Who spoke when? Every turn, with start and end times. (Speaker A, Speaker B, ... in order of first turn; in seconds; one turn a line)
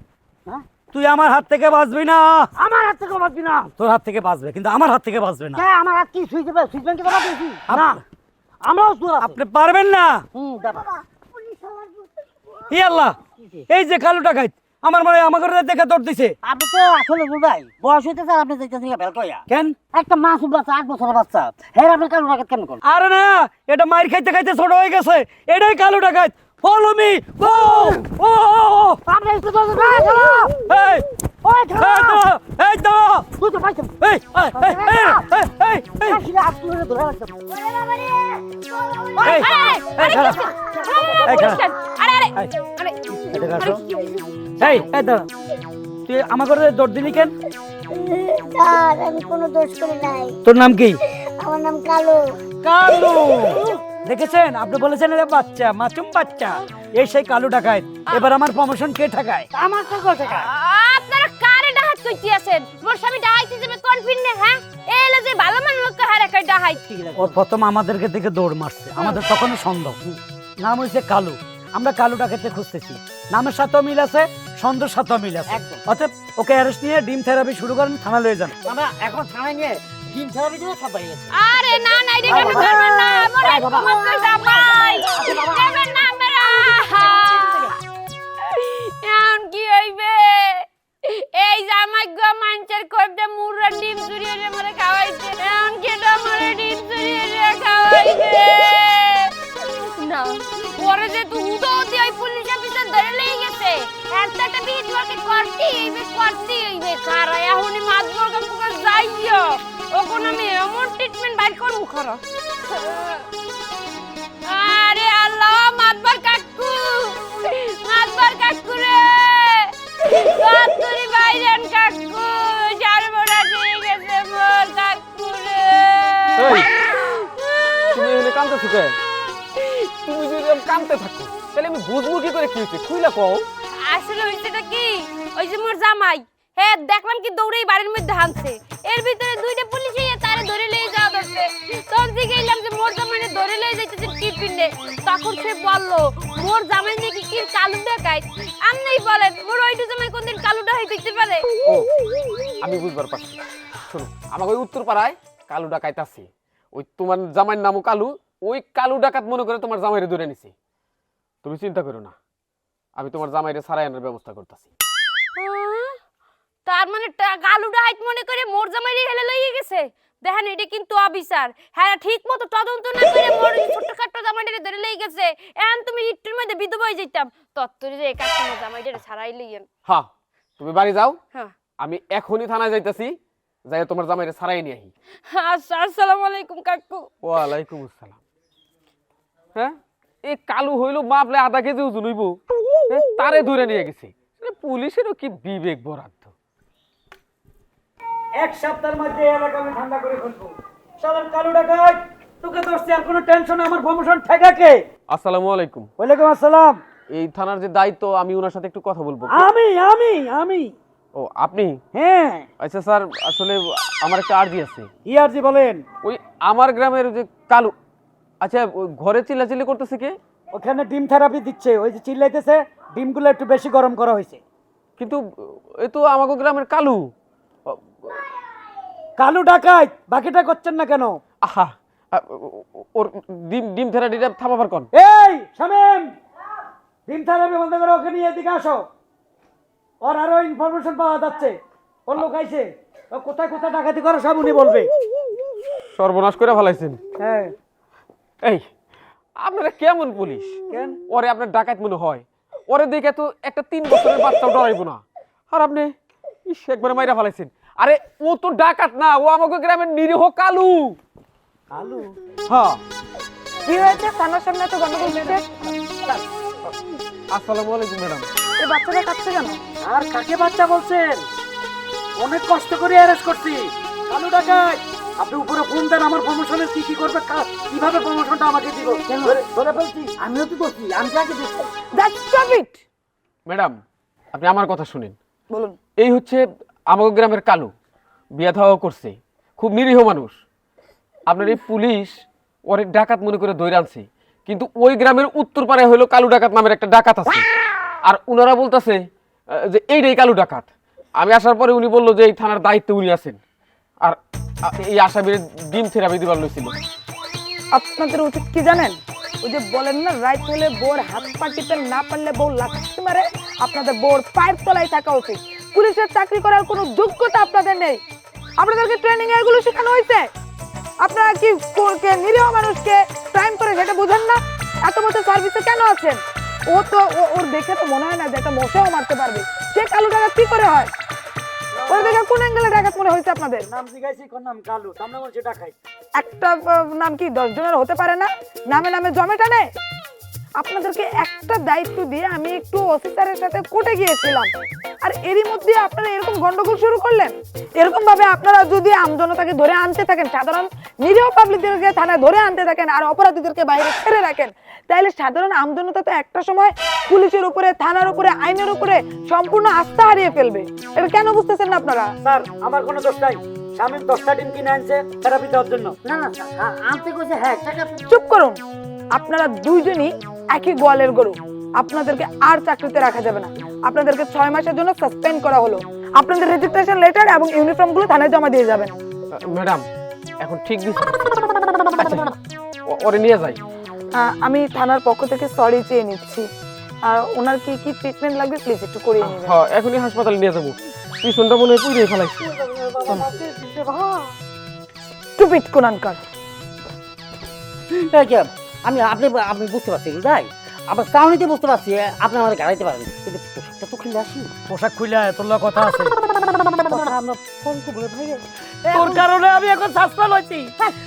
Speaker A: 0.9-2.5
Speaker B: 2.5-3.7
Speaker A: 3.8-5.6
Speaker B: 5.5-8.0
Speaker B: 8.6-9.4
Speaker A: 9.2-10.2
Speaker B: 10.3-12.1
Speaker A: 12.7-13.2
Speaker B: 13.4-13.7
Speaker A: 13.7-16.4
Speaker B: 16.4-22.8
Speaker A: 19.5-19.8
Speaker A: 22.8-29.0
Speaker B: 27.4-28.0
Speaker B: 29.1-30.6
Speaker A: 30.2-31.1
Speaker B: 31.4-32.2
Speaker A: 31.7-33.3
Speaker B: 33.4-34.0
Speaker A: 34.0-36.2
Speaker B: 34.5-35.3
Speaker B: 36.0-38.4
Speaker B: 39.0-39.4
Speaker A: 39.2-40.4
Speaker C: 39.3-44.6
Speaker B: 40.2-41.5
Speaker A: 41.2-41.6
Speaker A: 43.3-43.8
Speaker A: 44.6-45.2
Speaker A: 46.1-47.3
Speaker D: 47.9-50.4
Speaker A: 50.4-51.0
Speaker D: 51.1-52.4
Speaker A: 52.6-59.5
Speaker B: 59.5-60.5
Speaker C: 60.3-66.8
Speaker B: 66.9-67.3
Speaker A: 67.2-70.0
Speaker A: 70.6-78.5
Speaker B: 75.5-75.8
Speaker B: 78.6-81.3
Speaker C: 81.3-87.7
Speaker B: 82.2-87.7
Speaker C: 88.4-113.2
Speaker C: 114.4-128.2
Speaker E: 126.4-126.7
Speaker E: 127.9-129.0
Speaker E: 129.6-133.4
Speaker C: 133.8-151.5
Speaker E: 152.6-160.5
Speaker E: 161.4-162.1
Speaker E: 163.0-164.7
Speaker C: 165.3-165.9
Speaker C: 166.7-179.7
Speaker E: 180.6-181.2
Speaker E: 181.8-183.1
Speaker E: 183.7-184.9
Speaker C: 185.3-187.1
Speaker E: 187.2-188.2
Speaker E: 190.3-196.3
Speaker A: 198.4-204.8
Speaker E: 205.1-205.9
Speaker A: 206.0-206.8
Speaker E: 207.1-209.5
Speaker A: 209.3-210.7
Speaker E: 211.1-211.8
Speaker A: 211.9-212.4
Speaker E: 212.6-214.9
Speaker A: 215.0-215.8
Speaker E: 216.0-217.7
Speaker E: 218.4-220.1
Speaker A: 220.5-224.4
Speaker E: 225.0-227.1
Speaker E: 227.7-228.2
Speaker A: 229.2-231.2
Speaker E: 231.4-234.9
Speaker A: 234.9-236.1
Speaker A: 237.1-238.8
Speaker A: 240.0-241.6
Speaker A: 242.1-244.9
Speaker E: 245.9-247.0
Speaker A: 247.2-247.5
Speaker E: 249.4-255.9
Speaker A: 250.7-251.0
Speaker E: 256.5-261.0
Speaker A: 261.7-262.1
Speaker E: 262.5-262.8
Speaker F: 263.6-265.4
Speaker A: 265.0-266.2
Speaker E: 267.3-268.3
Speaker F: 268.6-269.6
Speaker A: 269.8-271.2
Speaker A: 272.2-280.2
Speaker B: 279.1-279.5
Speaker B: 280.1-281.7
Speaker F: 282.0-282.8
Speaker E: 283.5-283.8
Speaker E: 284.3-285.1
Speaker F: 285.5-285.8
Speaker E: 286.0-287.7
Speaker E: 288.3-290.4
Speaker E: 291.3-292.2
Speaker E: 292.7-297.4
Speaker E: 298.1-300.7
Speaker E: 301.2-303.4
Speaker E: 304.0-306.7
Speaker F: 307.7-318.0
Speaker F: 318.6-320.3
Speaker F: 321.0-330.9
Speaker A: 331.7-332.2
Speaker F: 331.9-333.7
Speaker A: 333.6-335.7
Speaker F: 336.2-339.6
Speaker F: 340.6-344.5
Speaker F: 345.0-362.1
Speaker A: 362.2-366.0
Speaker B: 366.0-368.0
Speaker F: 368.1-368.6
Speaker F: 369.1-378.9
Speaker E: 379.3-379.8
Speaker E: 380.4-382.3
Speaker E: 382.9-383.6
Speaker F: 384.2-386.5
Speaker F: 387.1-389.6
Speaker E: 389.2-392.5
Speaker B: 392.4-394.3
Speaker F: 395.4-396.2
Speaker B: 397.9-404.5
Speaker A: 404.7-406.1
Speaker B: 406.3-409.2
Speaker A: 408.9-410.7